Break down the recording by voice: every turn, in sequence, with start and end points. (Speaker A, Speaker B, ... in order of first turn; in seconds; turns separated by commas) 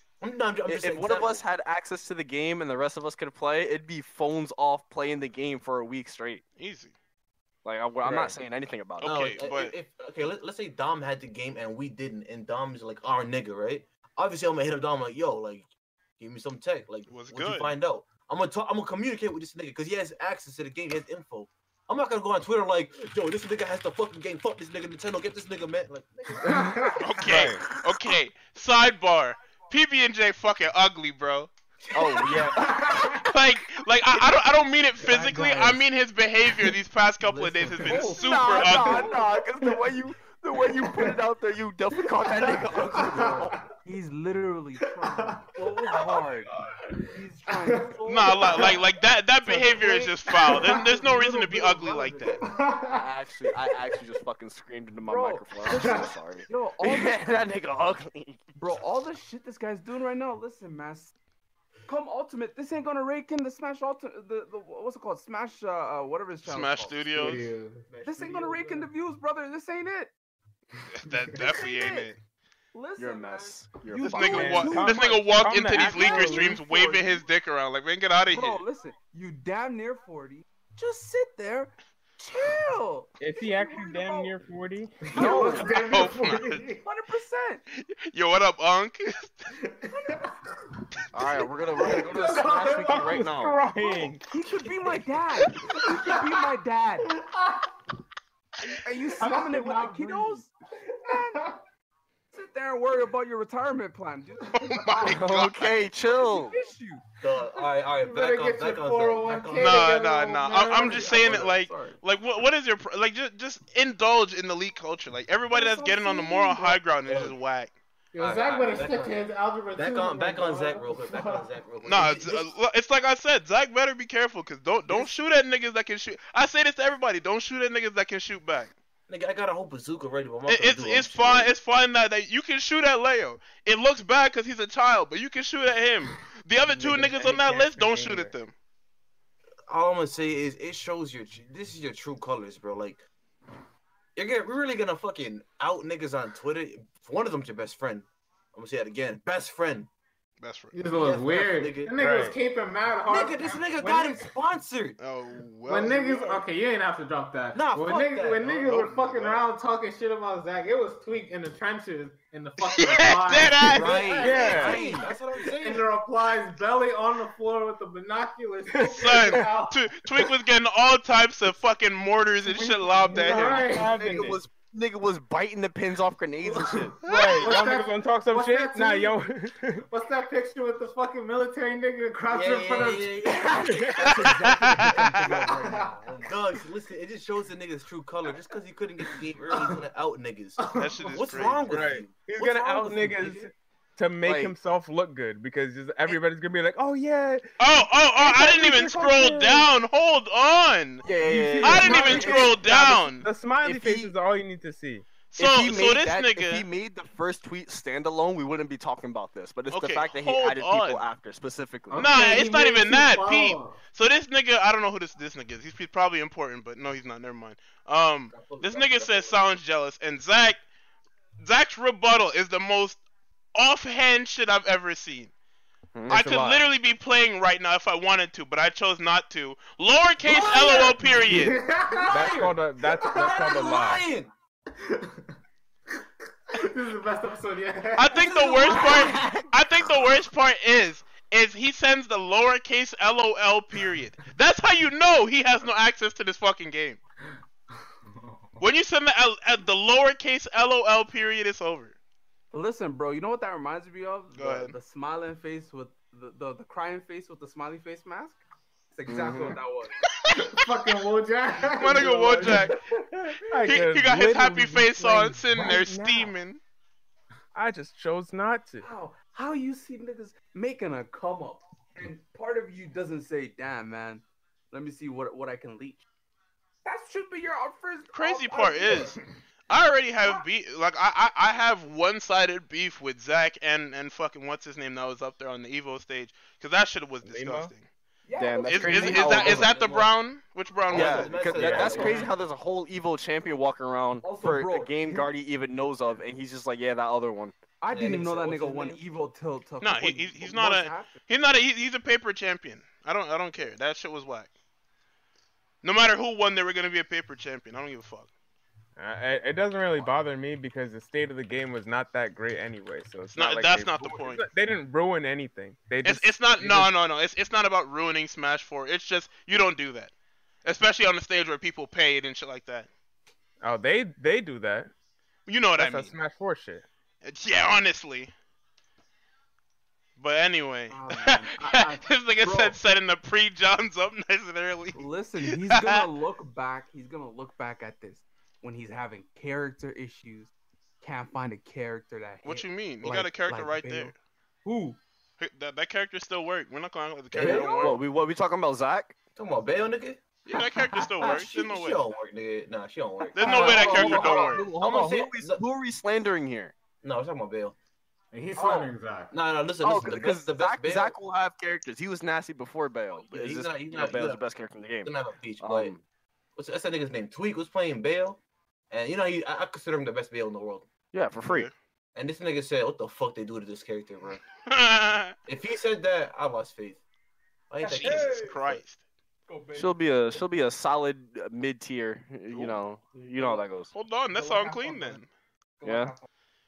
Speaker A: 0.2-1.4, Speaker B: 0.7-6.4, Speaker C: 6.6-6.9, Speaker B: 7.6-9.1, Speaker C: 9.0-9.7, Speaker A: 9.0-26.9, Speaker C: 17.1-17.7, Speaker D: 26.4-27.1, Speaker E: 26.5-27.7, Speaker C: 27.0-31.5, Speaker B: 31.9-33.3, Speaker D: 32.5-33.2, Speaker C: 33.2-39.2, Speaker F: 35.0-35.8, Speaker F: 37.2-39.2, Speaker B: 38.0-43.5, Speaker D: 40.7-41.2, Speaker D: 42.4-43.6, Speaker F: 43.1-46.5, Speaker D: 45.0-45.5, Speaker D: 46.7-48.8, Speaker F: 47.1-48.8, Speaker C: 48.1-52.4, Speaker F: 49.4-52.5, Speaker D: 50.3-50.9, Speaker D: 52.4-53.1, Speaker B: 52.9-58.4, Speaker F: 55.0-57.2, Speaker D: 55.8-56.1, Speaker F: 58.5-61.1, Speaker F: 61.9-67.4, Speaker C: 66.4-67.4, Speaker D: 67.1-67.9, Speaker A: 67.9-68.9, Speaker F: 68.0-70.1, Speaker C: 70.9-72.2, Speaker F: 71.5-72.1, Speaker F: 72.7-77.3, Speaker B: 73.0-74.8, Speaker C: 74.0-78.6, Speaker E: 74.2-76.6, Speaker F: 78.3-84.4, Speaker E: 83.2-85.6, Speaker F: 85.1-85.9, Speaker D: 85.1-86.8, Speaker C: 85.6-86.6, Speaker F: 86.8-87.6, Speaker C: 87.7-89.5, Speaker D: 89.7-90.4, Speaker B: 91.1-93.6, Speaker D: 91.8-94.1, Speaker E: 92.9-94.3, Speaker F: 94.3-97.1, Speaker D: 95.7-96.2, Speaker D: 97.0-97.7, Speaker F: 98.6-100.5, Speaker E: 99.2-100.4, Speaker D: 100.9-101.6, Speaker F: 101.1-101.5, Speaker F: 102.3-104.6, Speaker C: 104.5-105.7, Speaker B: 105.0-106.6, Speaker F: 106.0-107.0, Speaker A: 107.2-110.0, Speaker D: 107.3-111.1, Speaker C: 109.5-117.7, Speaker F: 110.0-112.0, Speaker A: 110.7-111.5, Speaker F: 115.5-116.8, Speaker A: 117.0-117.3, Speaker D: 118.1-121.5, Speaker A: 118.2-119.2, Speaker A: 119.7-122.5, Speaker C: 121.8-128.7, Speaker A: 129.1-131.5, Speaker C: 130.5-138.5, Speaker E: 136.7-138.3, Speaker A: 139.7-143.0, Speaker A: 144.2-149.9, Speaker C: 150.4-150.8, Speaker D: 150.7-154.3, Speaker A: 150.9-152.0, Speaker E: 152.0-152.3, Speaker A: 153.1-155.0, Speaker C: 155.0-156.4, Speaker D: 155.7-169.8, Speaker A: 157.5-159.4, Speaker C: 158.7-159.3, Speaker C: 162.7-164.4, Speaker A: 163.7-165.9, Speaker E: 164.2-165.1, Speaker E: 168.8-169.4, Speaker C: 168.9-173.6, Speaker E: 172.4-174.4, Speaker D: 173.1-174.3, Speaker B: 173.6-176.9, Speaker D: 176.4-179.2, Speaker E: 177.0-179.8, Speaker D: 179.9-183.2, Speaker A: 182.3-185.6, Speaker F: 184.0-186.3, Speaker C: 184.6-185.0, Speaker D: 185.6-185.9, Speaker A: 186.2-193.1, Speaker D: 189.5-189.8, Speaker D: 190.6-191.3, Speaker C: 190.8-191.7, Speaker E: 191.7-197.5, Speaker F: 192.5-193.5, Speaker B: 194.2-194.5, Speaker C: 197.6-201.0, Speaker E: 198.2-199.7, Speaker B: 201.0-202.6, Speaker E: 201.2-205.1, Speaker C: 201.6-203.3, Speaker B: 203.6-204.1, Speaker C: 205.3-206.7, Speaker B: 205.4-212.1, Speaker C: 209.7-211.0, Speaker D: 211.9-213.8, Speaker C: 211.9-220.6, Speaker A: 218.3-219.4, Speaker C: 221.4-223.0, Speaker C: 223.5-225.3, Speaker B: 225.9-226.3, Speaker C: 226.1-231.6, Speaker E: 226.1-226.6, Speaker A: 230.2-231.2, Speaker D: 231.3-233.6, Speaker A: 232.1-232.4, Speaker E: 232.1-234.1, Speaker A: 233.1-234.3, Speaker D: 234.8-235.3, Speaker D: 236.5-239.2, Speaker C: 237.9-247.0, Speaker A: 238.3-239.3, Speaker B: 238.7-239.2, Speaker D: 248.1-248.6, Speaker C: 248.6-251.9, Speaker F: 252.5-259.9, Speaker C: 254.3-254.8, Speaker B: 259.1-259.6, Speaker D: 260.3-262.7, Speaker C: 261.7-262.8, Speaker F: 262.4-262.8, Speaker E: 263.5-266.3, Speaker C: 263.6-266.6, Speaker E: 267.5-268.9, Speaker F: 268.8-276.0, Speaker F: 276.8-279.2, Speaker C: 278.1-287.9, Speaker E: 287.2-287.7, Speaker F: 288.2-289.8, Speaker B: 288.4-289.8, Speaker C: 288.6-291.9, Speaker A: 289.1-290.1, Speaker A: 290.9-292.3, Speaker B: 290.9-297.6, Speaker F: 291.5-292.3, Speaker F: 294.2-295.3, Speaker F: 297.8-301.2, Speaker A: 297.9-299.0, Speaker C: 299.8-304.5, Speaker C: 305.8-308.3, Speaker E: 309.0-316.9, Speaker C: 313.3-314.4, Speaker C: 316.0-320.1, Speaker C: 320.6-322.9, Speaker E: 323.6-324.9, Speaker C: 325.5-326.1, Speaker E: 325.8-326.8, Speaker C: 327.2-328.3, Speaker C: 330.2-336.0, Speaker F: 330.9-332.8, Speaker F: 334.9-345.0, Speaker C: 342.4-344.1, Speaker C: 345.4-348.0, Speaker A: 347.3-348.0, Speaker B: 347.4-349.1, Speaker A: 349.4-350.2, Speaker C: 350.4-352.0, Speaker F: 350.5-351.0, Speaker A: 351.2-355.6, Speaker F: 353.2-354.7, Speaker C: 353.3-354.7, Speaker B: 353.6-356.7, Speaker A: 357.0-357.8, Speaker D: 358.3-359.3, Speaker B: 358.6-358.8, Speaker A: 359.3-361.1, Speaker B: 359.8-366.0, Speaker A: 363.3-364.4, Speaker A: 365.0-365.9, Speaker A: 366.6-370.9, Speaker B: 371.1-371.7, Speaker C: 371.5-371.7, Speaker A: 372.1-374.4, Speaker C: 374.7-375.4, Speaker A: 375.5-377.0, Speaker A: 377.7-378.8, Speaker F: 377.8-378.7, Speaker C: 378.0-379.0, Speaker F: 379.5-380.0, Speaker B: 379.7-383.9, Speaker C: 382.5-382.8, Speaker F: 383.4-383.7, Speaker C: 383.9-385.3, Speaker F: 384.3-385.2, Speaker F: 385.8-386.3, Speaker B: 385.8-386.1